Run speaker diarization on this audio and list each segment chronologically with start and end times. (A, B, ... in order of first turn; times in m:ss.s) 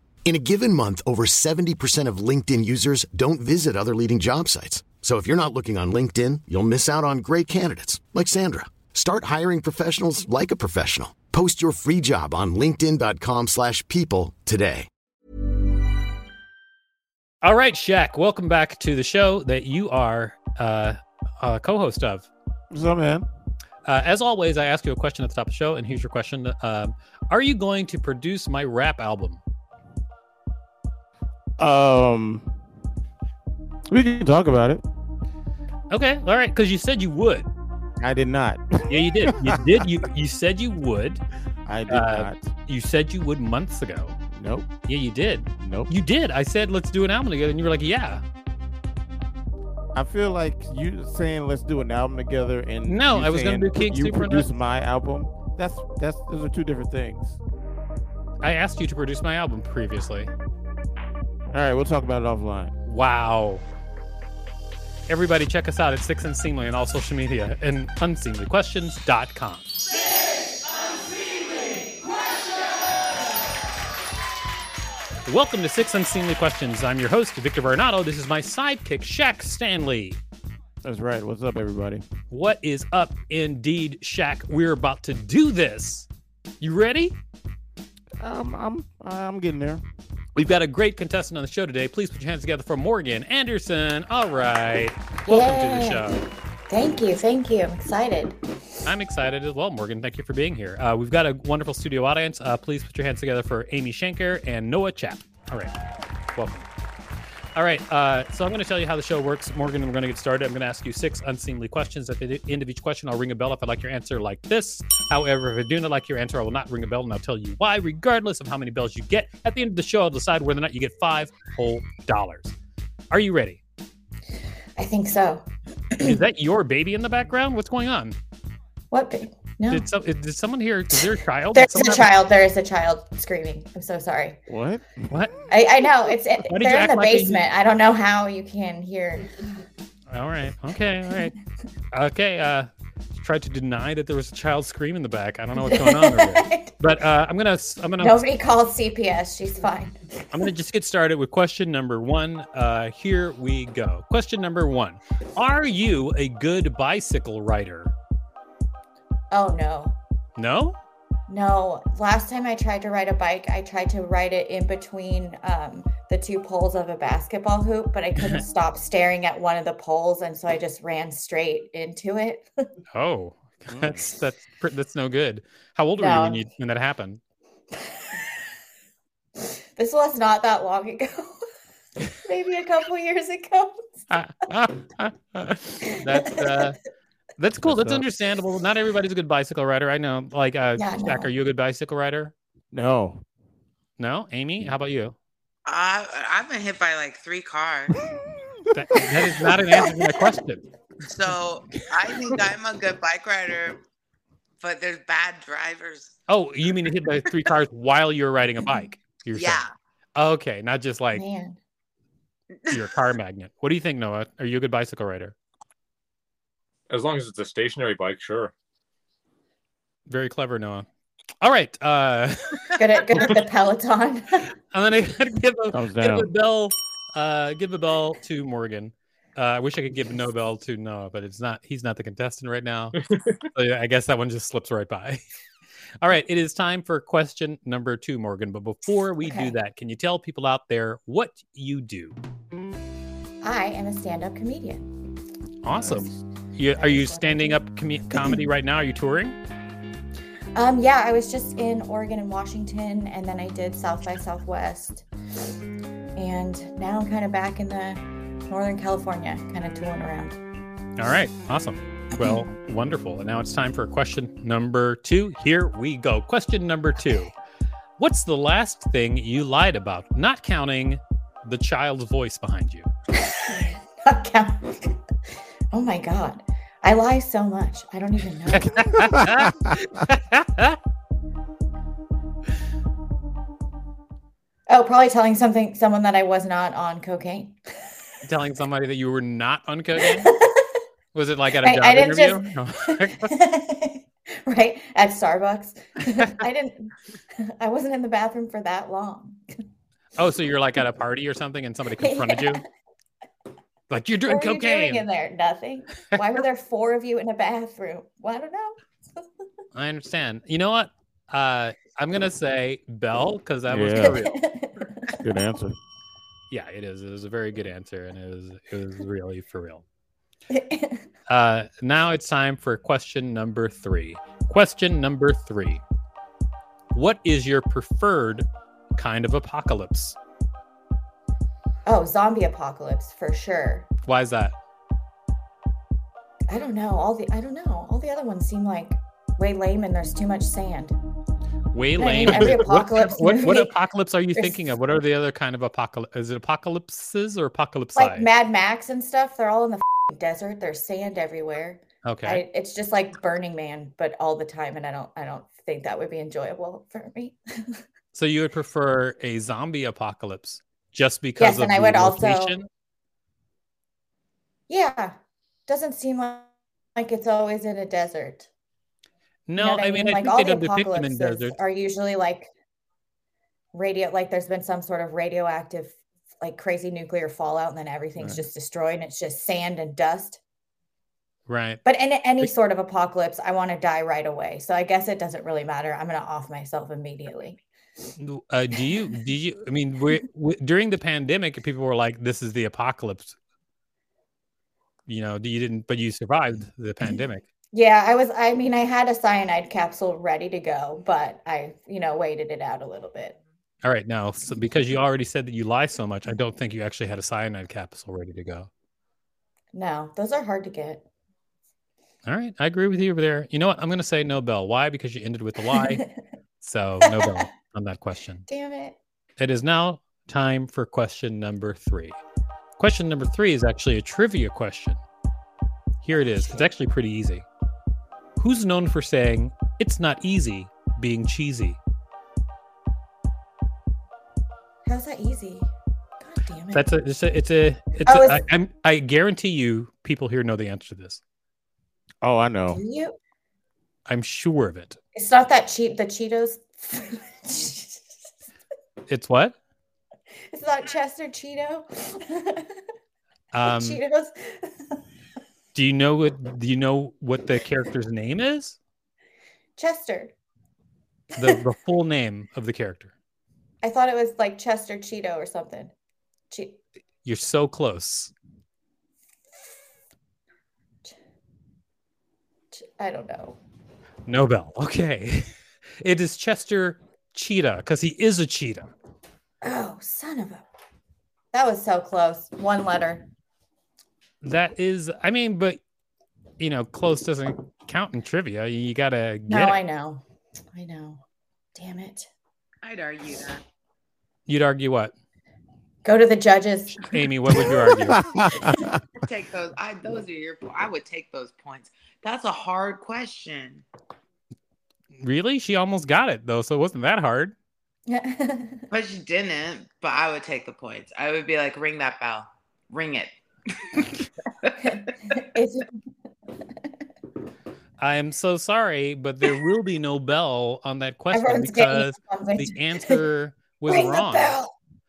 0:00.2-0:14.9 A
0:17.4-0:22.3 B
0:22.7-0:23.3 C
0:23.9-0:29.4 B
0:31.6-0:32.6 C
0:33.9-0:34.8 C
0:35.9-0:37.5 B
0:38.0-0:39.6 C
0:38.9-0:41.2 B
0:41.7-0:42.5 C
0:41.9-0:44.2 B
0:44.3-0:44.7 C
0:44.9-0:48.2 B
0:45.6-0:45.9 C
0:49.9-0:57.4 C
0:52.9-0:54.5 B
0:58.4-1:00.3 B
1:01.5-1:02.7 C
1:02.9-1:03.6 B
1:05.1-1:09.7 B
1:15.2-1:20.2 B
1:20.8-1:22.0 C
1:22.3-1:26.1 B
1:26.6-1:27.2 B
1:28.2-1:29.8 C
1:30.4-1:36.3 B
1:35.2-1:36.0 D
1:36.7-1:38.4 D
1:38.9-1:45.7 B
1:46.4-1:46.7 B
1:47.6-2:02.6 B
2:03.1-2:03.6 B
2:04.8-2:06.2 D
2:06.0-2:08.2 B
2:08.9-2:09.9 D
2:09.7-2:12.1 B
2:11.5-2:14.4 D
2:14.5-2:15.2 C
2:15.1-2:15.4 B
2:15.5-2:19.3 D
2:16.4-2:17.4 B
2:20.1-2:21.3 B
2:21.9-2:28.2 B
2:25.6-2:26.7 D
2:28.0-2:30.4 D
2:30.3-2:37.9 B
2:39.3-2:40.0 D
2:40.4-2:40.8 B
2:41.3-2:52.5 D
2:48.2-2:48.4 B
2:52.9-2:57.2 B
2:53.7-2:54.2 C
2:56.0-2:56.4 D
2:59.8-3:01.4 D
3:02.2-3:04.1 D
3:04.1-3:06.8 B
3:05.9-3:06.7 D
3:07.4-3:12.3 B
3:07.6-3:08.0 C
3:10.8-3:11.3 D
3:12.7-3:13.2 C
3:14.0-3:15.2 B
3:15.7-3:18.0 E
3:18.7-3:20.6 B
3:21.1-3:23.8 E
3:24.6-3:26.2 E
3:26.3-3:31.2 B
3:29.3-3:29.7 E
3:31.1-3:31.6 D
3:32.7-3:35.4 B
3:36.9-3:38.5 F
3:40.1-3:40.9 B
3:41.4-3:43.4 B
3:42.8-3:44.5 D
3:44.7-3:53.0 B
3:45.7-3:46.3 C
3:53.0-3:53.4 F
3:53.5-3:55.2 B
3:56.0-4:02.2 B
3:59.2-3:59.6 D
4:03.4-4:04.9 D
4:05.6-4:09.4 B
4:05.7-4:06.2 C
4:06.7-4:07.6 D
4:10.6-4:15.1 D
4:16.2-4:20.4 D
4:21.0-4:27.3 B
4:28.0-4:32.9 B
4:33.3-4:35.0 D
4:35.7-4:38.7 D
4:38.5-4:40.8 B
4:44.7-4:48.0 D
4:48.2-4:50.3 B
4:50.0-4:50.7 D
4:51.1-4:53.3 B
4:51.6-4:56.9 D
4:57.6-4:59.4 D
5:00.2-5:02.6 B
5:02.0-5:02.6 D
5:03.9-5:05.1 B
5:04.3-5:08.8 D
5:09.7-5:14.4 B
5:13.7-5:14.2 C
5:14.0-5:15.2 D
5:15.2-5:15.8 C
5:16.5-5:19.8 B
5:20.5-5:21.1 D
5:21.3-5:25.8 B
5:26.9-5:30.2 B
5:31.9-5:33.9 D
5:34.1-5:34.6 B
5:36.5-5:41.0 D
5:41.7-5:48.3 B
5:42.0-5:43.8 D
5:44.4-5:44.6 D
5:47.9-5:57.8 D
5:52.0-5:52.4 B
5:58.1-6:02.7 B
6:01.4-6:02.6 D
6:04.7-6:08.5 D
6:09.5-6:11.6 B
6:09.6-6:12.5 D
6:13.7-6:20.4 D
6:21.5-6:21.8 B
6:21.8-6:27.6 D
6:28.2-6:33.4 B
6:35.1-6:37.4 B
6:37.7-6:43.4 D
6:43.8-6:48.7 B
6:49.7-6:51.0 D
6:52.3-6:56.0 B
6:56.6-6:58.4 B
6:57.0-6:57.3 D
6:58.5-6:59.0 D
6:59.4-7:02.2 B
7:02.8-7:05.0 B
7:06.0-7:07.4 B
7:06.4-7:06.7 D
7:08.4-7:11.8 B
7:14.8-7:16.9 D
7:16.7-7:21.2 B
7:18.0-7:18.4 D
7:22.2-7:22.8 C
7:22.7-7:23.2 D
7:24.1-7:25.0 B
7:25.2-7:28.4 D
7:29.1-7:29.6 B
7:30.5-7:32.8 D
7:33.5-7:34.0 B
7:33.6-7:35.0 D
7:35.7-7:38.8 B
7:39.8-7:40.3 D
7:41.4-7:43.1 B
7:43.8-7:45.9 D
7:46.5-7:46.8 D
7:47.2-7:48.3 B
7:52.7-7:53.6 D
7:54.3-7:55.4 B
7:56.0-7:58.9 B
7:59.6-8:00.7 D
8:01.5-8:03.3 D
8:04.4-8:05.8 B
8:06.6-8:09.8 B
8:09.5-8:11.2 D
8:11.8-8:12.3 D
8:12.8-8:13.6 E
8:14.5-8:15.1 B
8:16.0-8:17.1 D
8:16.9-8:18.6 B
8:17.6-8:19.0 C
8:19.2-8:23.9 E
8:25.2-8:27.6 B
8:28.1-8:28.8 D
8:28.9-8:35.4 E
8:34.8-8:35.9 D
8:38.0-8:44.6 B
8:41.3-8:43.2 D
8:43.9-8:44.7 D